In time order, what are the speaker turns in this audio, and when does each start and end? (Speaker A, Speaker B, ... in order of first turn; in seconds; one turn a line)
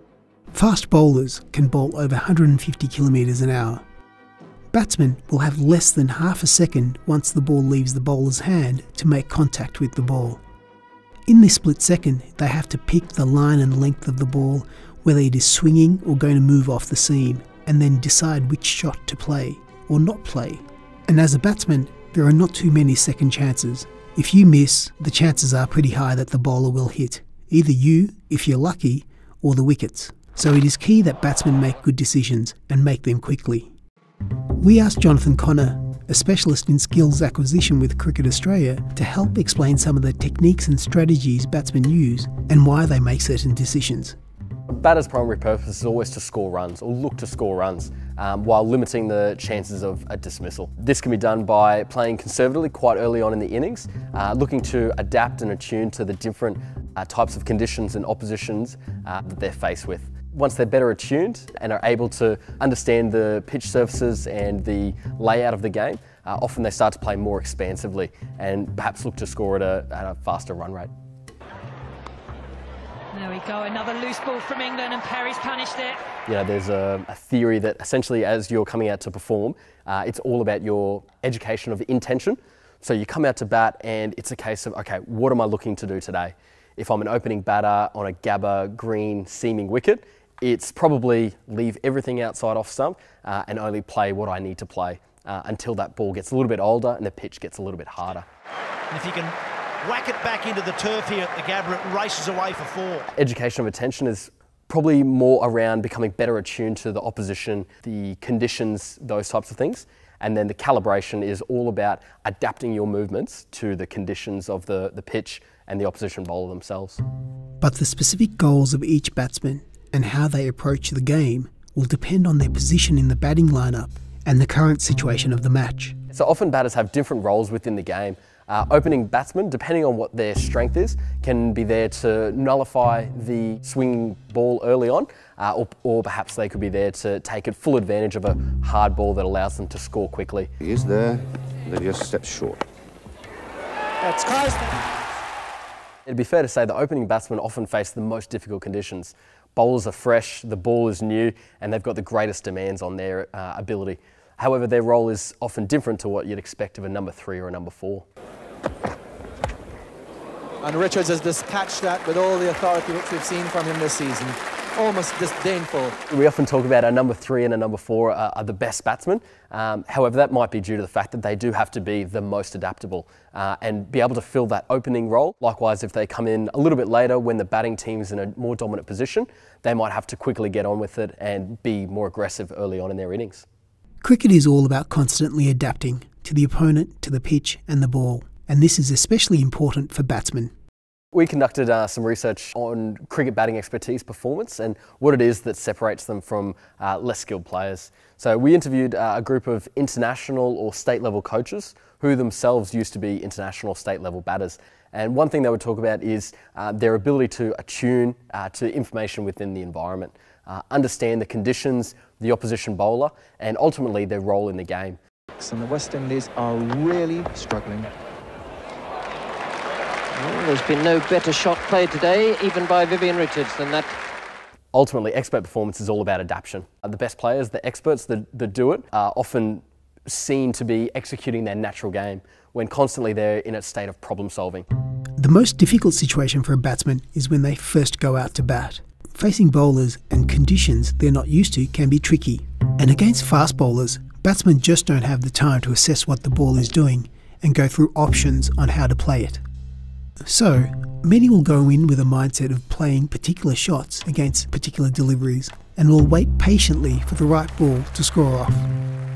Speaker A: 0.5-3.8
Speaker A: 4.7-10.4
Speaker A: 11.3-33.7
Speaker A: 34.6-44.1
Speaker B: 44.7-70.9
Speaker C: 73.1-76.0
Speaker B: 76.2-98.2
Speaker D: 98.9-103.0
Speaker B: 103.1-117.0
Speaker A: 117.6-126.0
Speaker B: 126.1-140.5
Speaker E: 140.6-142.6
Speaker D: 144.0-144.8
Speaker B: 146.1-158.1
Speaker F: 160.6-165.9
Speaker B: 166.1-183.4
Speaker A: 184.0-190.5
Speaker B: 191.1-215.0
Speaker F: 215.4-217.9
Speaker G: 220.1-223.9
Speaker B: 224.7-234.7
Speaker A: 235.2-249.4
Speaker A: 250.2-258.6